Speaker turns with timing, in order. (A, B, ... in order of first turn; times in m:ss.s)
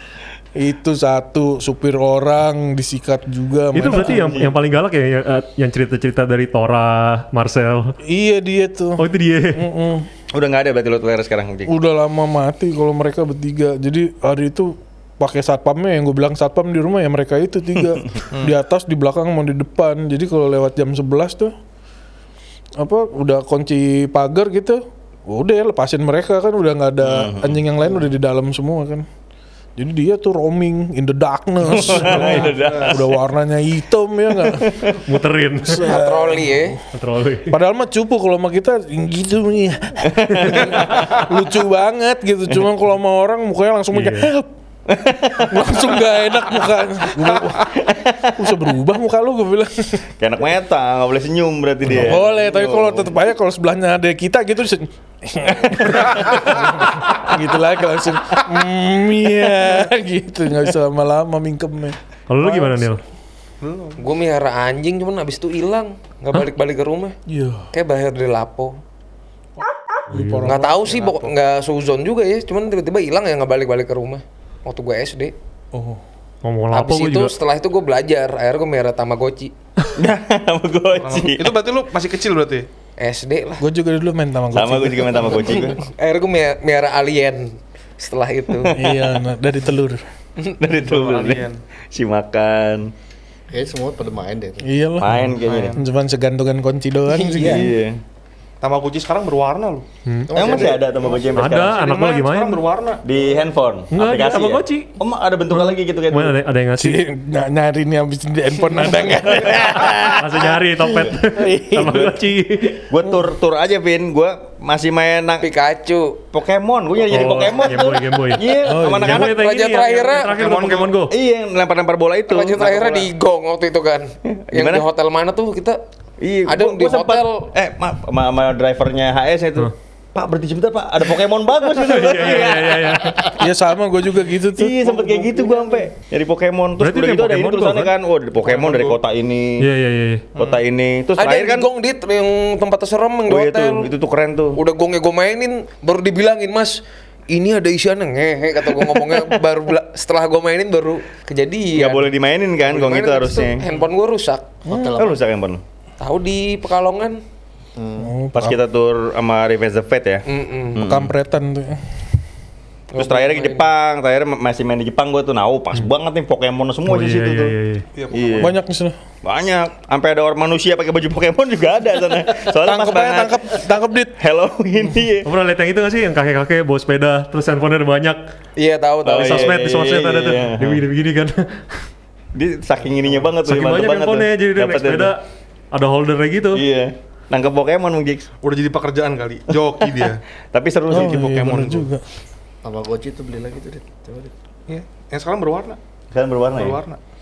0:00.6-0:04.5 A
0:03.7-0:08.0 B
0:04.1-0:04.5 C
0:08.0-0:10.1 A
0:09.0-0:09.6 B
0:10.3-0:11.7 C
0:11.7-0:21.5 A
0:22.8-0:29.0 A
0:27.0-0:27.6 C
0:29.8-0:34.7 A
0:31.7-0:33.1 C
0:32.2-0:32.9 D
0:34.5-0:34.9 C
0:34.8-0:36.0 B
0:35.6-0:36.8 A
0:35.8-0:36.8 E
0:36.9-0:37.5 B
0:37.5-0:44.5 A
0:40.0-0:40.8 C
0:40.6-0:41.0 B
0:43.9-0:44.3 B
0:44.9-0:46.0 C
0:45.4-0:47.7 A
0:47.7-0:48.6 C
0:48.3-0:50.0 A
0:50.2-0:53.1 C
0:51.8-1:03.0 A
1:02.3-1:03.0 B
1:03.6-1:04.0 D
1:04.0-1:07.2 E
1:07.3-1:07.7 A
1:07.7-1:08.8 E
1:10.1-1:10.9 A
1:10.1-1:10.5 B
1:10.4-1:15.3 E
1:10.7-1:11.3 D
1:15.7-1:16.0 A
1:16.4-1:17.3 B
1:16.7-1:19.5 E
1:19.9-1:21.5 C
1:20.9-1:22.7 D
1:23.0-1:23.6 E
1:23.6-1:25.5 A
1:24.5-1:25.8 C
1:25.8-1:28.7 E
1:28.6-1:29.0 C
1:28.7-1:30.0 A
1:30.6-1:32.9 C
1:30.7-1:31.6 D
1:33.5-1:34.7 F
1:34.6-1:37.7 A
1:35.0-1:35.8 C
1:35.4-1:35.8 D
1:37.1-1:37.6 E
1:37.3-1:38.0 C
1:38.6-1:39.9 D
1:40.0-1:40.3 B
1:40.3-1:41.0 F
1:40.3-1:41.8 C
1:41.2-1:43.4 D
1:41.3-1:42.6 B
1:43.0-1:46.3 C
1:43.9-1:44.9 B
1:45.5-1:47.0 B
1:46.8-1:50.0 A
1:49.2-1:50.5 C
1:49.9-1:52.8 B
1:51.3-1:52.1 A
1:51.8-1:52.1 C
1:52.7-1:55.5 C
1:55.4-1:56.2 E
1:56.3-1:59.4 C
1:57.1-2:01.1 B
1:58.6-1:59.3 A
1:59.2-2:00.4 E
2:00.3-2:01.0 D
2:01.1-2:03.1 C
2:02.2-2:05.8 E
2:04.3-2:04.8 C
2:06.2-2:13.4 C
2:06.4-2:07.5 E
2:11.8-2:13.4 B
2:13.4-2:15.5 A
2:14.5-2:19.7 C
2:16.8-2:17.9 B
2:18.4-2:19.0 D
2:19.6-2:20.2 B
2:20.3-2:20.6 D
2:20.4-2:21.7 C
2:21.2-2:23.9 E
2:23.3-2:24.6 C
2:24.5-2:26.8 E
2:27.3-2:32.1 E
2:31.7-2:33.6 C
2:32.6-2:34.6 E
2:34.7-2:35.2 F
2:34.9-2:35.6 C
2:36.0-2:37.2 E
2:37.8-2:38.1 F
2:38.0-2:38.6 A
2:38.3-2:41.1 C
2:40.3-2:40.8 E
2:40.8-2:41.8 A
2:42.9-2:43.7 E
2:43.0-2:47.5 C
2:46.8-2:47.8 B
2:48.0-2:48.5 D
2:48.1-2:48.5 C
2:48.4-2:49.0 A
2:49.2-2:53.4 C
2:52.5-2:54.2 A
2:54.2-2:55.3 C
2:55.2-2:58.2 B
2:58.6-2:59.6 E
2:59.0-3:00.8 C
2:59.1-3:01.8 B
3:02.3-3:05.1 C
3:03.4-3:05.2 B
3:05.7-3:06.6 B
3:06.5-3:08.3 C
3:08.4-3:10.2 D
3:09.8-3:11.3 C
3:10.9-3:12.0 A
3:10.9-3:11.9 D
3:12.6-3:14.3 F
3:14.7-3:15.8 D
3:16.1-3:16.8 C
3:16.5-3:17.0 D